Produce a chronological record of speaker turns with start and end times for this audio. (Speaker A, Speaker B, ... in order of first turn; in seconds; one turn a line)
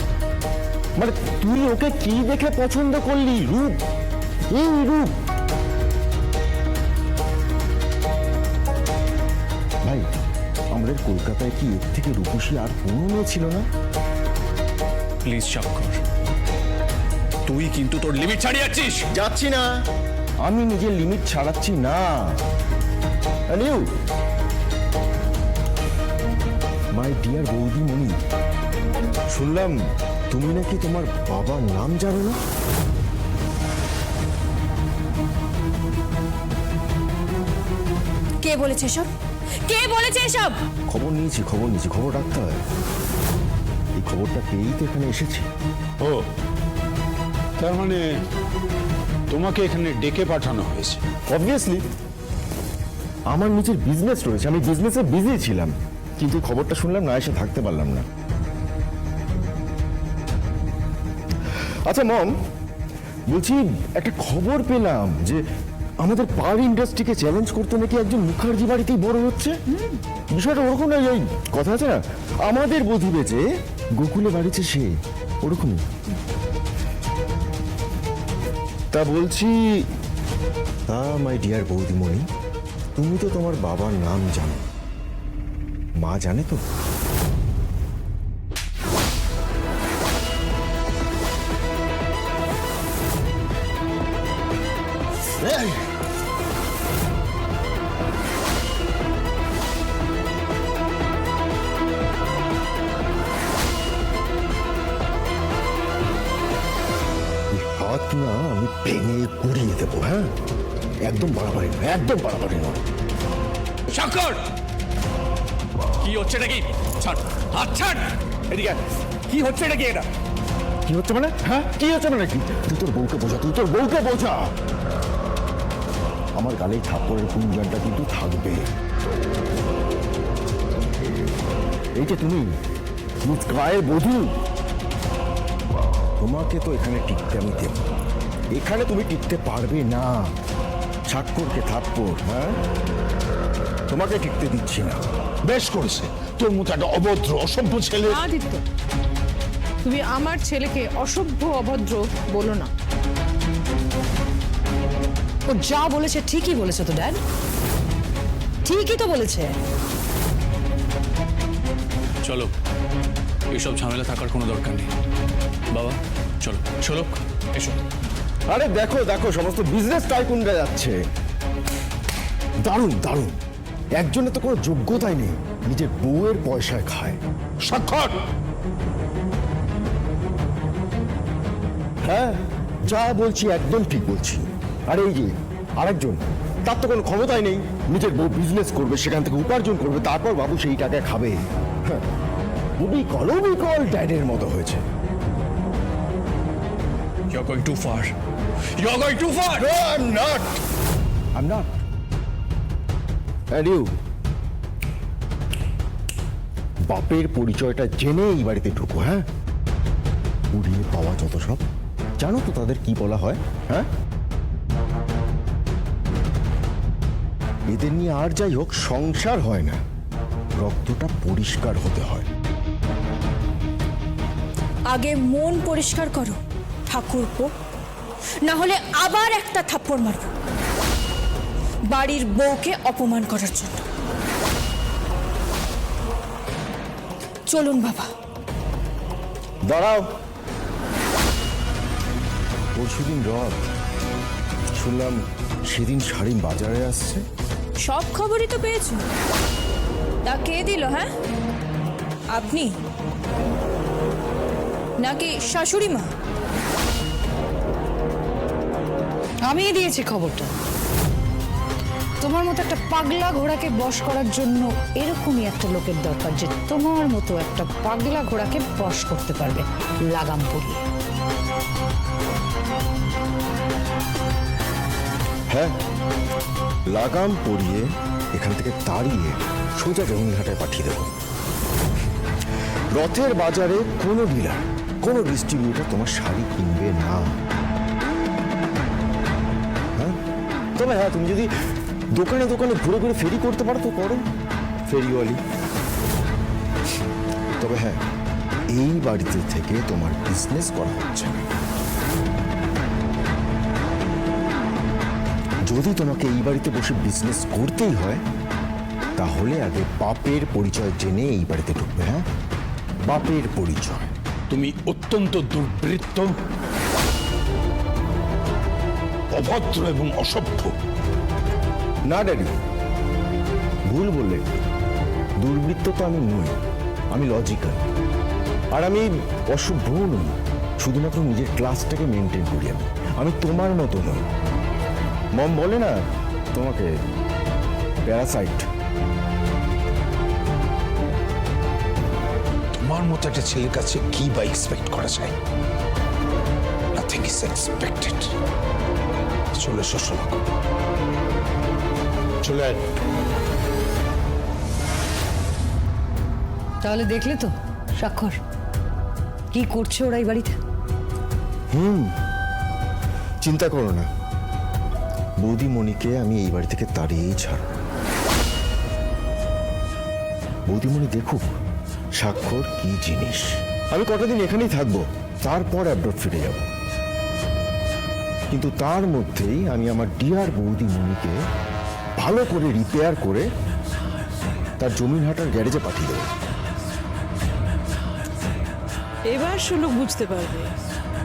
Speaker A: 1.0-3.8
Speaker A: 4.5-5.1
Speaker A: 10.7-13.7
Speaker B: 15.2-16.0
Speaker B: 17.5-19.1
Speaker A: 19.1-19.7
Speaker A: 20.4-22.4
Speaker A: 23.5-23.9
Speaker A: 26.9-28.2
Speaker A: 29.3-29.8
Speaker A: 30.3-32.4
Speaker C: 38.4-39.1
Speaker C: 39.7-40.6
Speaker A: 40.9-42.6
Speaker A: 44.0-45.5
Speaker D: 46.0-46.2
Speaker D: 47.6-48.0
Speaker D: 49.3-51.0
Speaker A: 51.3-51.9
Speaker A: 53.3-58.1
Speaker A: 61.9-62.3
Speaker A: 63.3-65.4
Speaker A: 66.0-69.6
Speaker A: 70.3-73.4
Speaker A: 74.0-75.8
Speaker A: 78.9-79.9
Speaker A: 80.9-82.3
Speaker A: 83.0-84.7
Speaker A: 86.0-86.6
Speaker A: 95.4-95.8
Speaker A: 107.5-110.3
Speaker A: 111.0-112.8
Speaker B: 113.9-114.4
Speaker B: 116.0-118.7
Speaker B: 119.3-120.0
Speaker A: 120.9-124.5
Speaker A: 126.4-128.7
Speaker A: 132.0-132.6
Speaker A: 133.2-134.3
Speaker A: 136.2-137.8
Speaker A: 138.5-140.3
Speaker A: 141.1-142.6
Speaker A: 143.9-145.1
Speaker D: 145.4-148.2
Speaker E: 148.1-148.6
Speaker E: 149.8-152.7
Speaker F: 155.5-157.2
Speaker F: 158.7-159.6
Speaker B: 162.2-162.5
Speaker B: 163.5-164.9
Speaker B: 165.7-167.8
Speaker A: 168.5-171.0
Speaker A: 172.6-173.4
Speaker A: 174.0-177.2
Speaker D: 177.6-178.2
Speaker A: 182.0-192.1
Speaker A: 192.8-194.8
Speaker B: 197.3-198.1
Speaker B: 198.8-199.7
Speaker A: 199.5-200.5
Speaker A: 201.3-201.7
Speaker A: 203.5-203.9
Speaker A: 206.9-209.3
Speaker A: 210.5-211.6
Speaker A: 212.2-213.9
Speaker A: 217.7-219.8
Speaker A: 220.6-222.3
Speaker C: 224.9-227.5
Speaker C: 228.4-230.3
Speaker C: 231.9-233.8
Speaker C: 237.5-238.1
Speaker A: 239.7-240.1
Speaker A: 242.8-243.6
Speaker A: 244.8-247.2
Speaker C: 247.8-249.0
Speaker C: 250.2-251.1
Speaker C: 252.3-252.7
Speaker C: 255.0-256.1
Speaker F: 259.5-260.5
Speaker F: 262.2-270.8
Speaker A: 275.5-275.8
Speaker A: 276.9-281.1
Speaker A: 282.9-287.4
Speaker A: 290.8-291.5
Speaker A: 292.1-294.2
Speaker A: 294.9-295.4
Speaker A: 297.6-298.0
Speaker A: 298.7-301.4
Speaker A: 305.7-308.2
Speaker A: 309.2-312.3
Speaker A: 313.1-314.1
Speaker D: 314.5-316.3
Speaker D: 319.3-320.7
Speaker A: 322.1-322.6
Speaker A: 323.9-324.4
Speaker A: 325.4-326.6
Speaker A: 327.1-327.8
Speaker A: 328.7-334.3
Speaker A: 335.3-335.9
Speaker A: 336.5-336.9
Speaker A: 338.1-338.7
Speaker D: 342.7-345.4
Speaker D: 346.9-348.4
Speaker D: 349.5-350.4
Speaker D: 352.4-352.8
Speaker F: 356.8-358.4
Speaker F: 359.5-360.6
Speaker A: 361.7-362.1
Speaker A: 363.4-364.1
Speaker A: 365.4-367.7
Speaker A: 370.7-371.5
Speaker A: 372.2-376.7
Speaker A: 378.5-381.4
Speaker A: 382.2-383.5
Speaker A: 384.8-386.3
Speaker E: 389.3-390.7